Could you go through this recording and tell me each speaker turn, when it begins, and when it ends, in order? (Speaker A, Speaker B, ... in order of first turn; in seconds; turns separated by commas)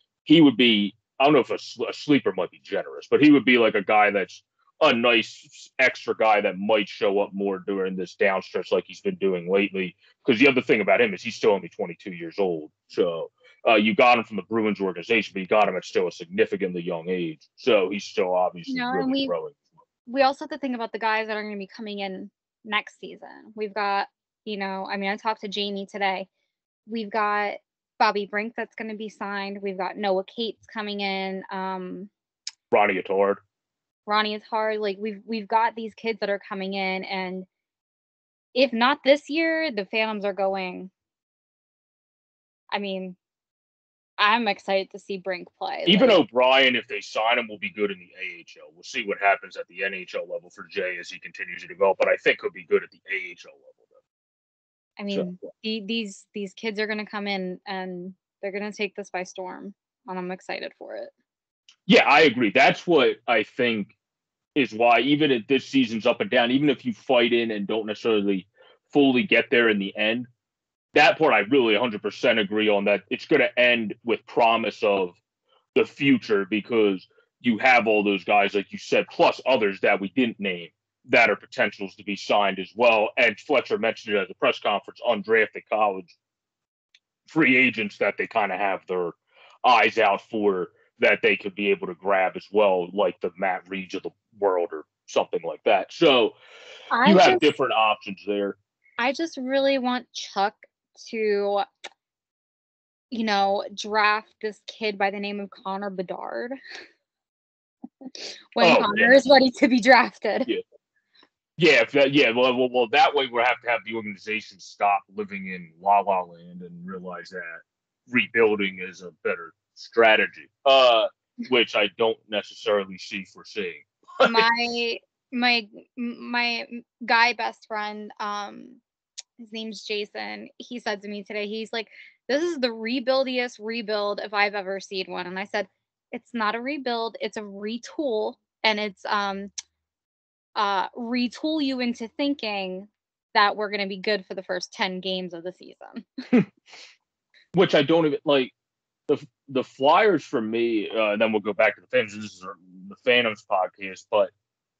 Speaker A: 0.2-19.6, Speaker B: 18.7-19.3, Speaker B: 20.1-26.3, Speaker B: 26.9-32.1, Speaker A: 32.7-33.4, Speaker B: 34.1-37.5, Speaker B: 38.5-40.9, Speaker B: 42.7-43.2, Speaker B: 44.2-46.2, Speaker A: 45.9-53.9, Speaker B: 55.0-61.1, Speaker A: 61.9-63.9, Speaker A: 64.5-70.3, Speaker A: 70.9-75.2, Speaker A: 75.7-86.1, Speaker A: 87.3-96.3, Speaker B: 96.9-97.5, Speaker A: 97.0-98.6, Speaker B: 99.0-101.7, Speaker B: 103.1-106.5, Speaker B: 108.1-110.5, Speaker A: 108.6-109.2, Speaker A: 111.6-124.5, Speaker B: 124.2-128.8, Speaker B: 129.4-139.5, Speaker B: 140.6-146.0, Speaker A: 147.5-148.5, Speaker A: 149.1-154.3